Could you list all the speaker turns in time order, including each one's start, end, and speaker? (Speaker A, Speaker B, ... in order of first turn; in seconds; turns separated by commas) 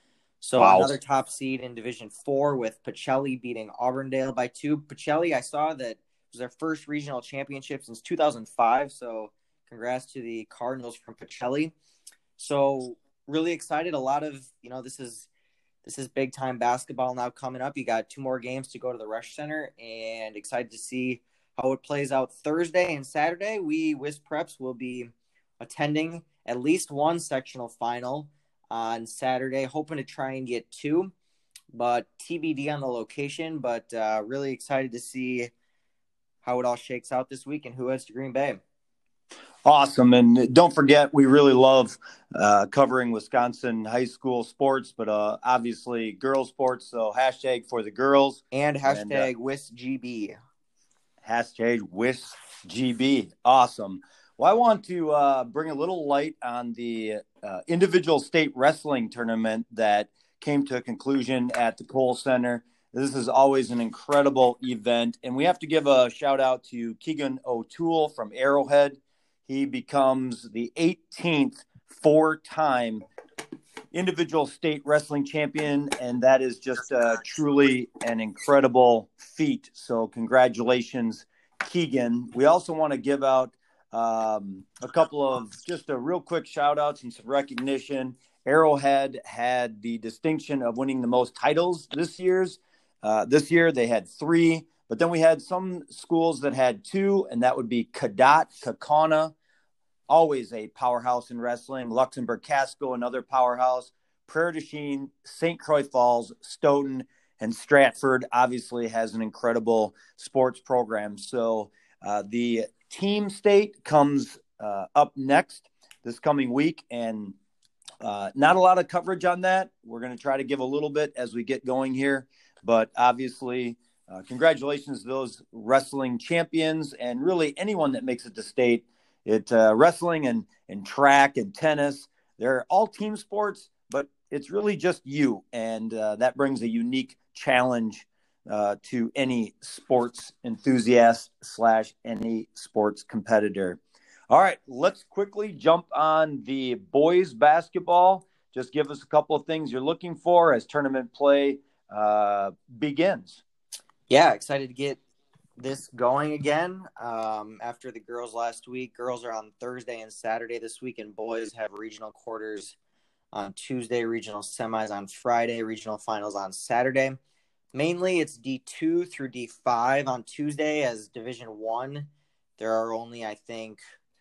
Speaker A: 0.4-11.7, Speaker B: 0.6-0.9, Speaker A: 12.4-15.3, Speaker A: 15.8-31.1, Speaker A: 31.7-35.5, Speaker A: 36.4-38.6, Speaker B: 39.6-49.3, Speaker A: 48.5-50.4, Speaker B: 51.2-73.0, Speaker B: 73.9-99.3, Speaker B: 100.1-117.3, Speaker B: 118.0-153.4, Speaker A: 154.1-155.0, Speaker A: 155.6-162.8, Speaker A: 163.3-167.2, Speaker A: 167.7-173.8